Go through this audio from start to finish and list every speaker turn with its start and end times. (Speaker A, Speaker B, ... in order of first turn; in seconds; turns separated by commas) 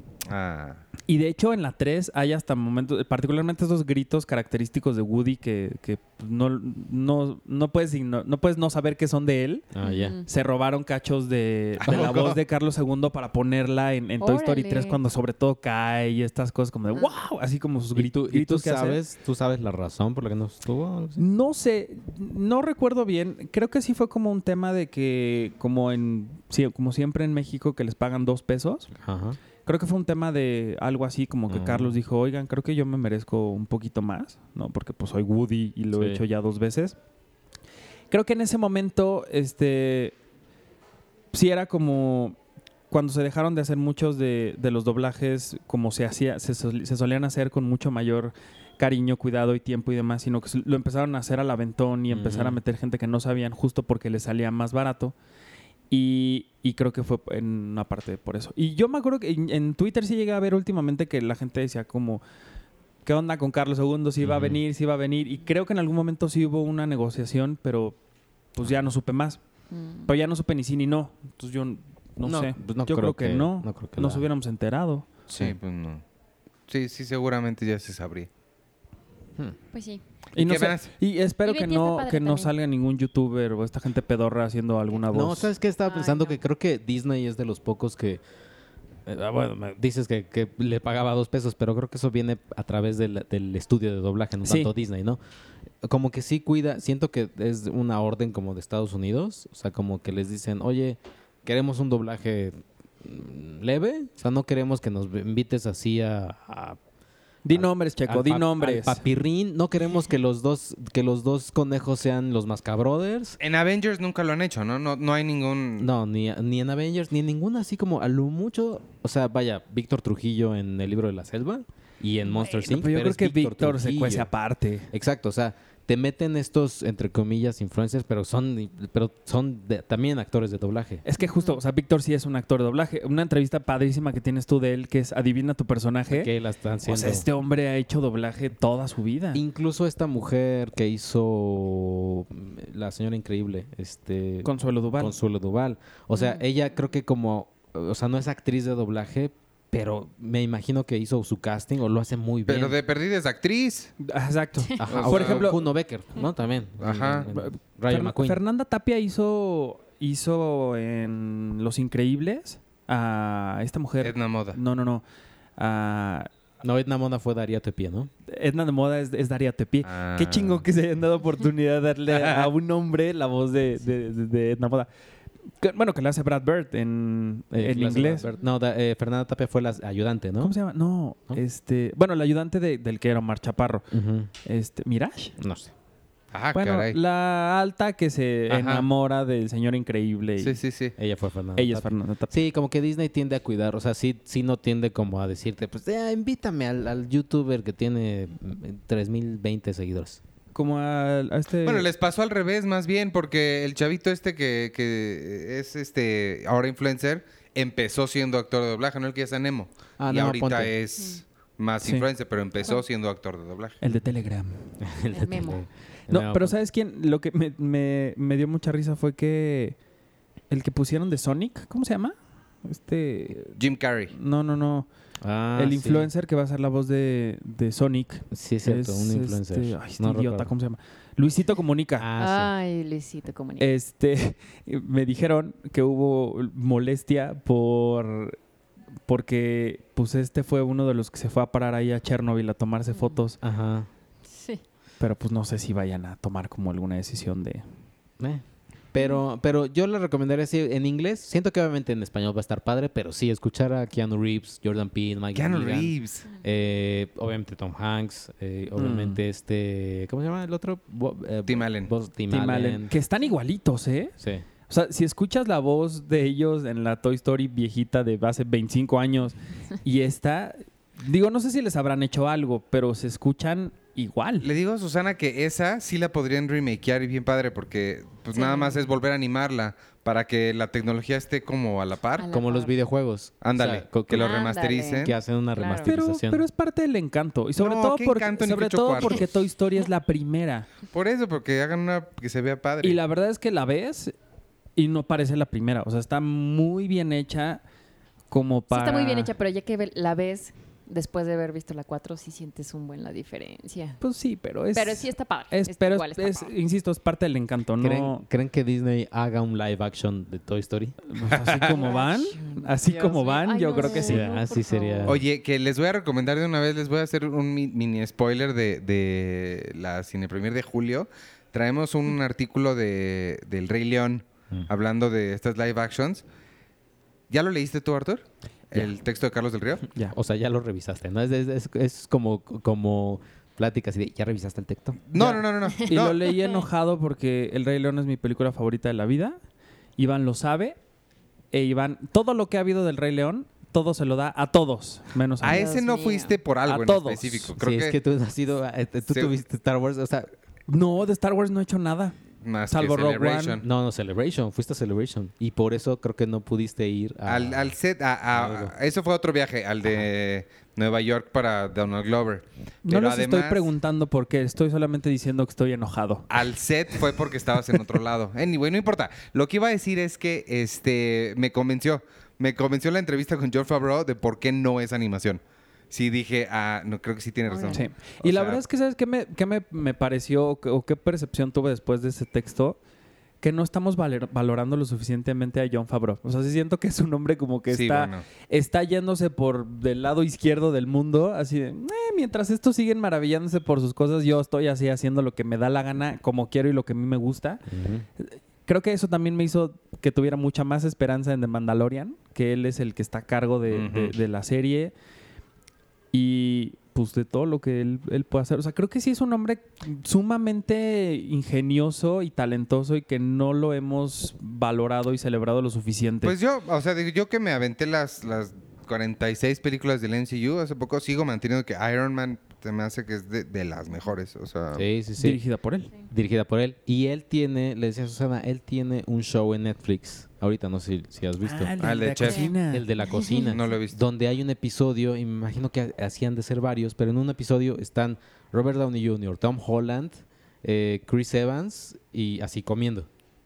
Speaker A: 0.2-0.8, Speaker B: 1.1-9.6, Speaker C: 9.7-10.2, Speaker D: 9.8-10.2, Speaker B: 10.2-19.0, Speaker A: 11.8-12.4, Speaker C: 11.9-12.1, Speaker D: 14.2-15.0, Speaker C: 17.9-21.2, Speaker B: 21.2-28.9, Speaker C: 28.9-29.4, Speaker B: 29.6-37.0, Speaker C: 31.5-31.9, Speaker C: 35.9-36.2, Speaker B: 38.1-40.1, Speaker B: 41.3-42.4, Speaker B: 42.9-55.1, Speaker C: 52.1-52.6, Speaker B: 55.9-62.2, Speaker B: 63.0-68.0, Speaker C: 64.2-64.6, Speaker B: 68.5-69.4, Speaker D: 69.7-70.1, Speaker B: 70.0-75.1, Speaker C: 72.2-74.2, Speaker A: 75.3-76.0, Speaker A: 76.7-78.3, Speaker D: 79.7-80.0, Speaker A: 80.3-80.9, Speaker B: 80.3-85.5, Speaker D: 81.4-82.5, Speaker C: 85.1-88.2, Speaker D: 85.8-86.4, Speaker C: 89.0-95.2, Speaker B: 94.4-94.7, Speaker C: 95.8-106.8, Speaker B: 107.4-109.0, Speaker C: 107.5-113.4, Speaker A: 113.4-115.9, Speaker C: 115.8-124.3, Speaker B: 122.4-124.9, Speaker C: 124.9-131.0, Speaker B: 131.0-136.3, Speaker D: 131.2-131.6, Speaker C: 136.1-137.3, Speaker B: 136.8-139.4, Speaker C: 139.3-152.8, Speaker B: 144.4-145.2, Speaker D: 146.1-146.4, Speaker A: 152.5-153.9, Speaker B: 154.0-155.6, Speaker C: 154.8-158.4, Speaker A: 154.9-155.5, Speaker A: 156.8-157.3, Speaker B: 157.3-165.0, Speaker A: 164.0-164.6, Speaker B: 165.6-166.3, Speaker C: 166.6-168.1, Speaker B: 168.3-174.9, Speaker A: 169.8-170.6, Speaker A: 172.1-172.5, Speaker B: 175.6-178.2, Speaker C: 177.5-180.5, Speaker B: 180.4-183.9, Speaker C: 183.9-184.3, Speaker B: 184.4-185.3, Speaker C: 185.4-185.7, Speaker A: 186.3-187.0, Speaker B: 186.5-190.6, Speaker A: 188.5-188.9, Speaker A: 190.4-190.9, Speaker C: 191.0-200.2, Speaker B: 191.6-192.4, Speaker B: 200.5-201.9, Speaker A: 201.6-213.8, Speaker C: 210.0-210.7, Speaker B: 213.8-214.8, Speaker C: 214.8-216.5, Speaker D: 215.1-215.6, Speaker B: 216.1-219.8, Speaker B: 220.5-223.6, Speaker A: 223.6-224.1, Speaker B: 224.1-224.9, Speaker C: 225.2-226.1, Speaker B: 225.6-232.1, Speaker C: 228.3-230.5, Speaker C: 232.0-232.5, Speaker D: 232.2-233.7, Speaker B: 233.6-238.4, Speaker B: 239.1-243.4, Speaker D: 242.9-243.2, Speaker C: 243.4-243.9, Speaker D: 244.3-244.6, Speaker B: 245.0-247.6, Speaker C: 248.2-262.9, Speaker A: 255.3-256.2, Speaker B: 258.8-259.2, Speaker A: 261.4-261.9, Speaker B: 262.3-264.1, Speaker C: 264.2-264.4, Speaker B: 264.7-274.5, Speaker A: 274.4-282.3, Speaker D: 278.3-278.9, Speaker D: 282.2-282.8, Speaker C: 282.3-284.3, Speaker A: 283.4-285.1, Speaker D: 284.1-285.9, Speaker C: 285.0-286.4, Speaker B: 285.8-290.7, Speaker A: 287.6-289.3, Speaker A: 290.9-293.0, Speaker B: 292.8-294.1, Speaker B: 294.8-297.6, Speaker B: 298.3-299.3, Speaker D: 298.7-304.0, Speaker B: 304.0-308.2, Speaker D: 304.7-306.5, Speaker C: 307.8-311.0, Speaker B: 311.1-314.3, Speaker A: 311.4-311.6, Speaker D: 311.6-315.2, Speaker C: 313.8-315.2, Speaker A: 315.1-326.2, Speaker A: 327.3-329.8, Speaker C: 330.1-335.1, Speaker A: 335.1-336.3, Speaker B: 335.1-339.4, Speaker D: 335.7-336.6, Speaker B: 340.0-340.8, Speaker B: 341.5-345.7, Speaker A: 345.4-347.9, Speaker D: 345.5-346.4, Speaker B: 346.6-347.5, Speaker C: 347.6-350.3, Speaker B: 350.7-352.1, Speaker A: 352.4-353.6, Speaker B: 352.7-353.6, Speaker C: 353.6-357.7, Speaker A: 357.2-363.6, Speaker C: 358.3-358.7, Speaker B: 362.8-366.3, Speaker A: 366.3-378.6, Speaker D: 377.5-377.8, Speaker B: 377.7-382.8, Speaker B: 383.4-397.6, Speaker A: 387.7-388.2, Speaker C: 397.7-398.1, Speaker B: 398.2-404.9, Speaker A: 403.7-404.1, Speaker B: 406.1-416.3, Speaker A: 416.2-424.9, Speaker C: 424.7-425.4, Speaker B: 425.2-425.9, Speaker C: 426.1-431.7, Speaker B: 431.4-432.9, Speaker A: 431.8-432.5, Speaker C: 432.7-443.1, Speaker D: 433.0-433.6, Speaker A: 433.5-434.0